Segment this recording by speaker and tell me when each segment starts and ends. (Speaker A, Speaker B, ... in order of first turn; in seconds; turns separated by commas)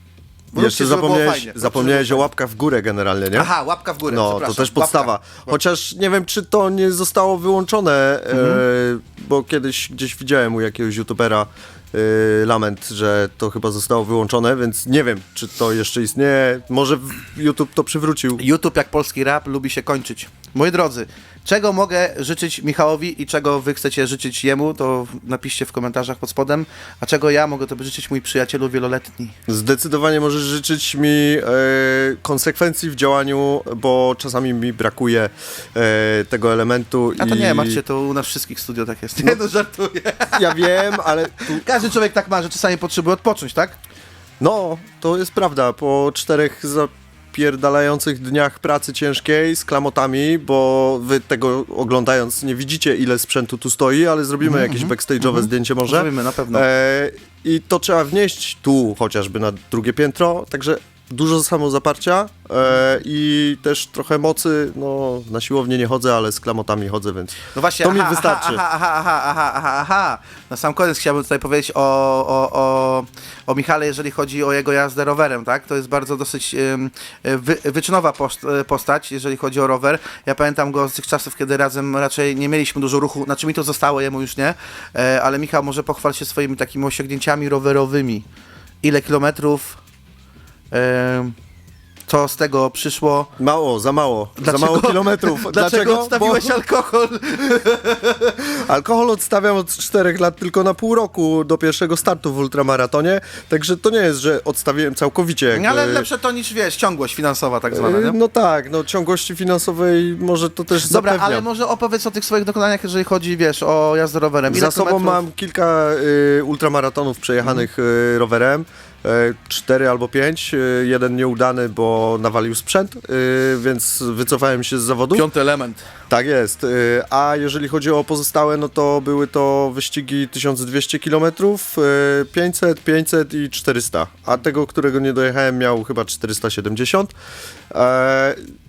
Speaker A: 0.5-2.3, Speaker B: 0.5-3.5, Speaker A: 3.3-5.5, Speaker B: 4.1-18.4, Speaker A: 8.3-8.6, Speaker A: 18.4-29.4, Speaker B: 29.5-37.8, Speaker A: 37.2-43.8, Speaker B: 40.3-41.7, Speaker B: 44.4-68.6, Speaker A: 54.4-56.7, Speaker A: 67.5-88.3, Speaker A: 88.8-89.8, Speaker A: 90.7-91.3, Speaker A: 92.1-93.3, Speaker B: 93.4-96.5, Speaker A: 94.4-98.5, Speaker B: 98.5-106.1, Speaker A: 105.5-108.2, Speaker B: 107.7-111.5, Speaker A: 110.8-115.2, Speaker B: 114.5-125.3, Speaker A: 125.1-125.8, Speaker B: 126.1-137.1, Speaker B: 137.7-138.4